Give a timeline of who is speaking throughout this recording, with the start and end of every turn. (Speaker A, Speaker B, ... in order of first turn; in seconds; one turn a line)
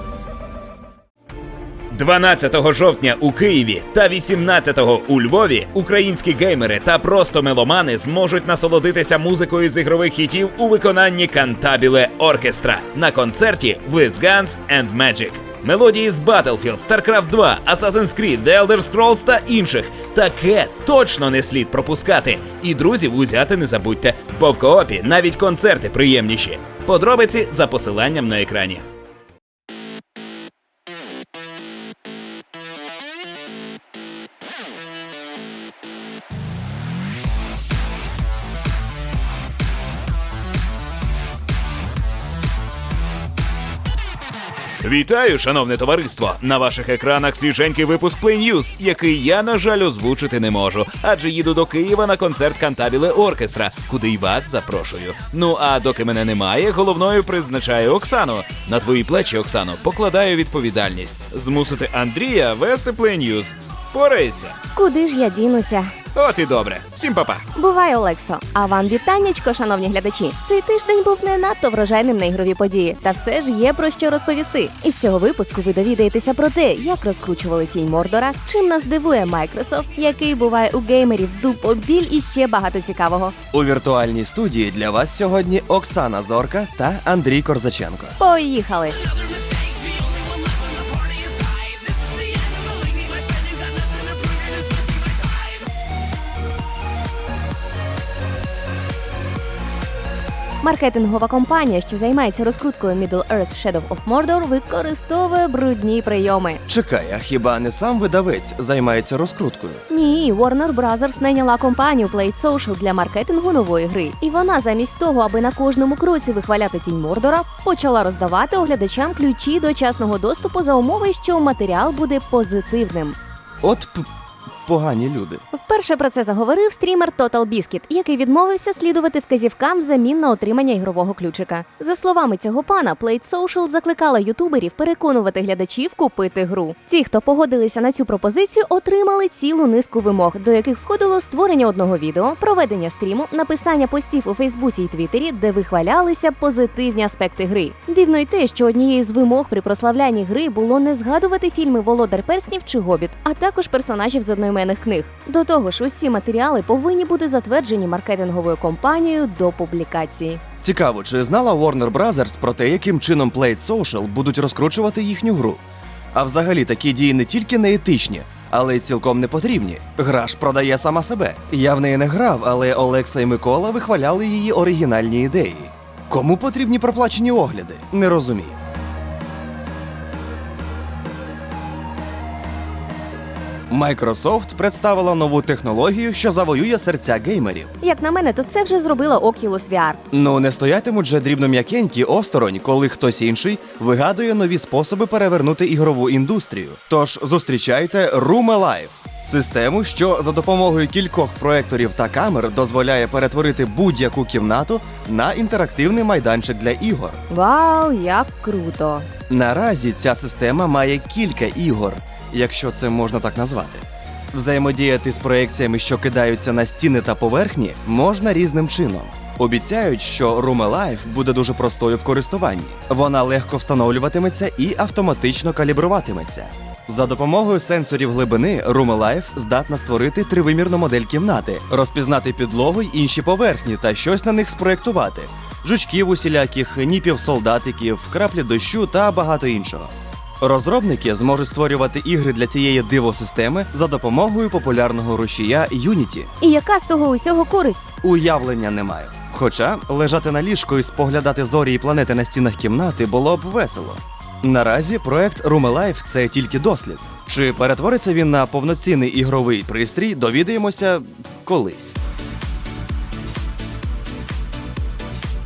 Speaker A: 1.9-28.8
Speaker A: 44.8-64.5
Speaker B: 64.7-65.9
Speaker A: 66.1-67.4
Speaker B: 67.5-83.3
Speaker C: 83.5-88.2
Speaker B: 88.2-89.0
Speaker B: 100.6-106.6
Speaker C: 106.7-109.8
Speaker B: 109.9-123.2
Speaker C: 123.6-124.1
Speaker C: 124.6-125.4
Speaker B: 125.5-160.4
Speaker C: 160.6-165.6
Speaker C: 166.1-178.6
Speaker C: 183.7-187.7
Speaker B: 187.8-190.0
Speaker C: 190.1-207.2
Speaker B: 207.3-209.1
Speaker C: 209.3-246.3
Speaker B: 246.4-247.9
Speaker C: 248.0-261.9